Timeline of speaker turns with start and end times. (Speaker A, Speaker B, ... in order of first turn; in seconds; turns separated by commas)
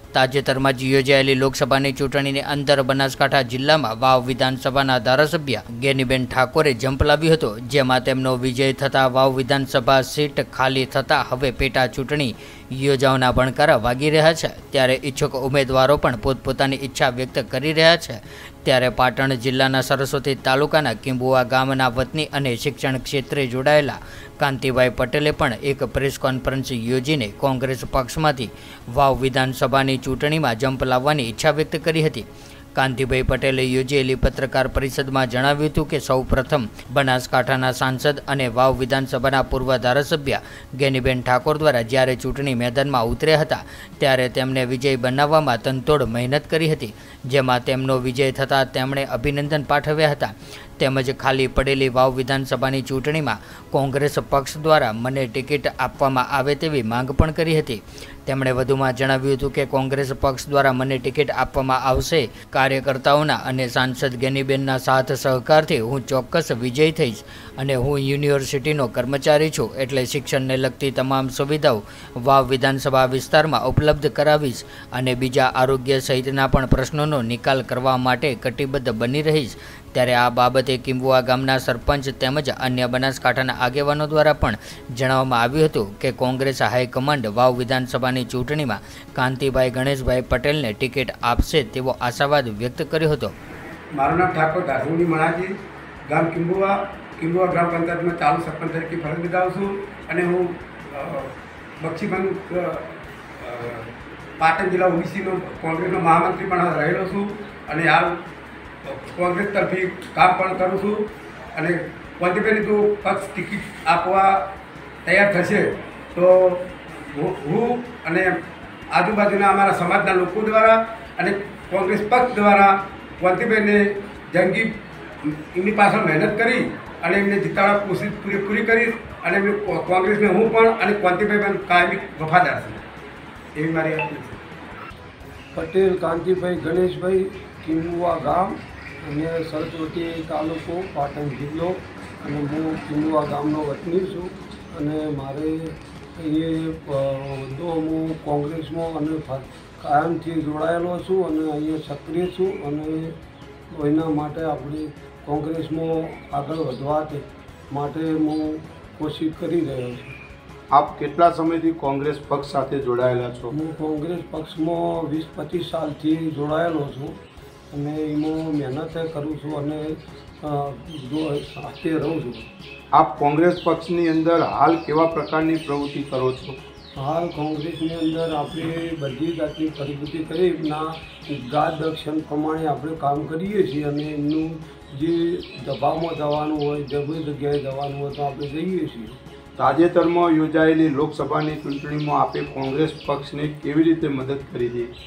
Speaker A: 0.1-93.3, Speaker B: 93.9-95.5, Speaker B: 96.1-108.2, Speaker B: 108.8-114.5, Speaker B: 115.0-118.4, Speaker B: 118.9-132.8, Speaker B: 133.6-134.4, Speaker C: 135.5-153.2, Speaker C: 153.7-160.2, Speaker D: 160.7-163.5, Speaker C: 163.5-167.2, Speaker C: 167.7-172.5, Speaker D: 172.9-176.6, Speaker C: 177.0-189.2, Speaker D: 189.6-194.9